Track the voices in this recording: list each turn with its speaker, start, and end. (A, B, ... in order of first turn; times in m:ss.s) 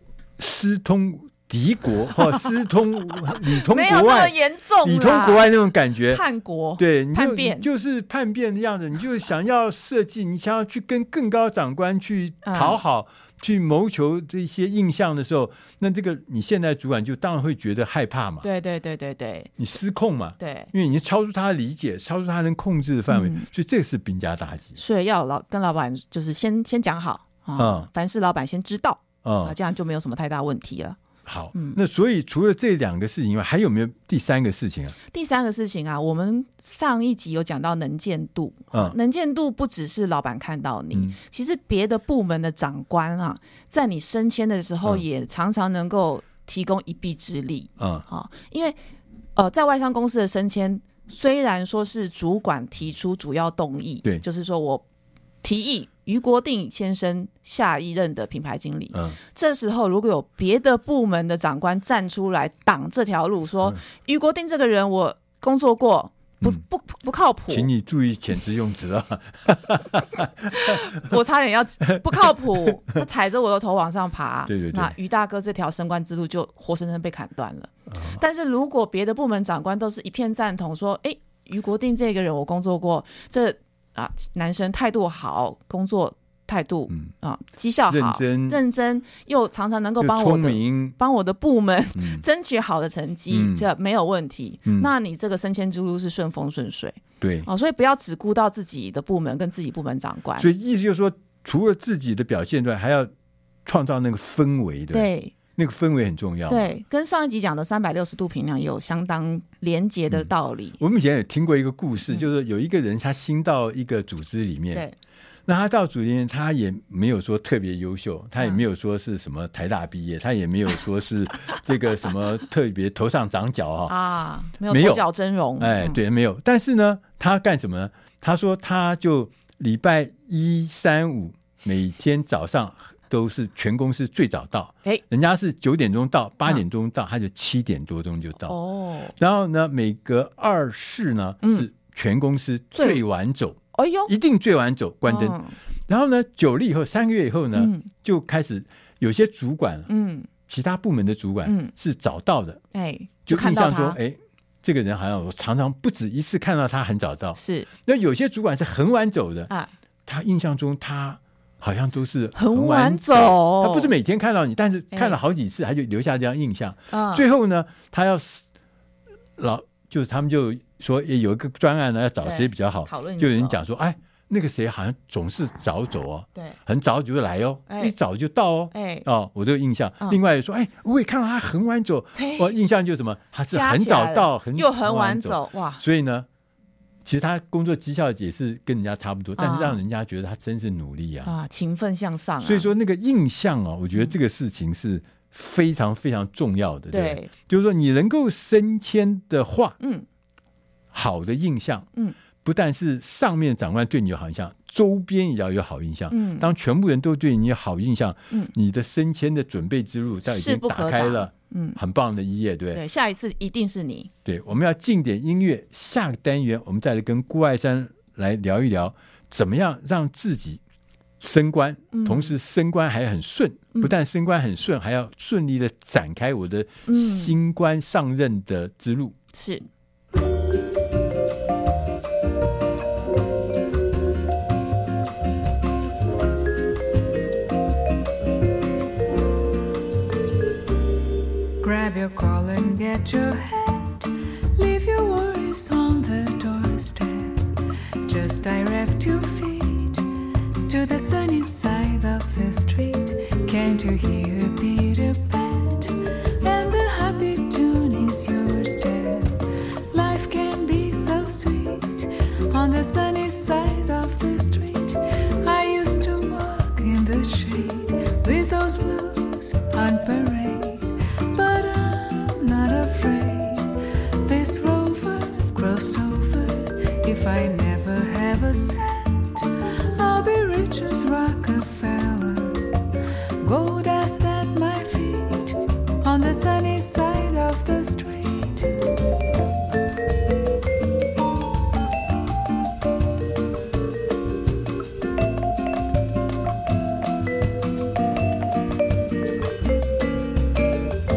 0:00.4-0:06.2 A
0:03.5-0:05.5 B
0:06.1-0:07.6 B
0:06.8-0:18.5 A
0:12.4-0:12.8 B
0:18.4-0:19.5 B
0:19.6-0:24.8 A
0:20.4-0:20.7 B
0:23.1-0:23.4 B
0:24.8-0:31.0 B
0:27.6-0:27.9 A
0:29.2-0:29.5 A
0:31.2-0:34.9 A
0:31.5-0:31.8 B
0:35.1-0:48.8 B
0:47.8-0:48.0 A
0:49.4-0:54.8 B
0:55.4-1:07.7 B
1:07.5-1:10.8 A
1:10.5-1:40.5 B
1:12.0-1:12.7 A
1:14.5-1:14.9 A
1:17.9-1:18.2 A
1:27.9-1:28.6 A
1:30.0-1:30.9 A
1:32.0-1:32.2 A
1:33.3-1:33.7 A
1:34.6-1:34.9 A
1:37.2-1:37.5 A
1:40.4-1:43.1 A
1:43.6-1:46.7 A
1:44.9-1:45.3 B
1:46.5-1:50.8 B
1:50.1-1:54.8 A
1:55.5-2:03.9 A
2:03.9-2:06.0 B
2:04.7-2:05.0 A
2:05.6-2:18.6 A
2:18.4-2:19.1 B
2:19.2-2:29.9 A
2:21.4-2:21.7 B
2:22.7-2:23.0 B
2:23.7-2:24.1 B
2:25.0-2:25.6 B
2:27.5-2:27.9 B
2:29.9-2:30.3 B
2:30.5-2:32.6 A
2:31.4-2:31.7 B
2:32.7-2:34.0 B
2:33.3-2:39.5 A
2:37.4-2:37.7 B
2:40.0-2:48.4 A
2:42.3-2:43.9 B
2:44.9-2:45.2 B
2:46.9-2:47.2 B
2:49.4-3:06.3 A
2:52.2-2:53.6 B
2:57.7-2:57.9 B
2:58.7-2:59.0 B
3:02.2-3:02.5 B
3:03.5-3:05.8 B
3:07.0-3:11.3 A
3:09.4-3:09.8 B
3:11.2-3:12.7 B
3:12.4-3:19.8 A
3:16.9-3:17.3 B
3:19.8-3:20.0 B
3:20.9-3:21.9 A
3:22.4-3:32.8 A
3:26.1-3:26.5 B
3:30.2-3:31.8 B
3:32.7-3:34.1 B
3:34.2-3:40.6 A
3:41.2-3:49.2 A
3:41.9-3:42.3 B
3:46.9-3:47.3 B
3:49.3-3:49.6 B
4:01.6-4:10.1 C
4:10.6-4:42.8 C
4:43.4-4:48.8 C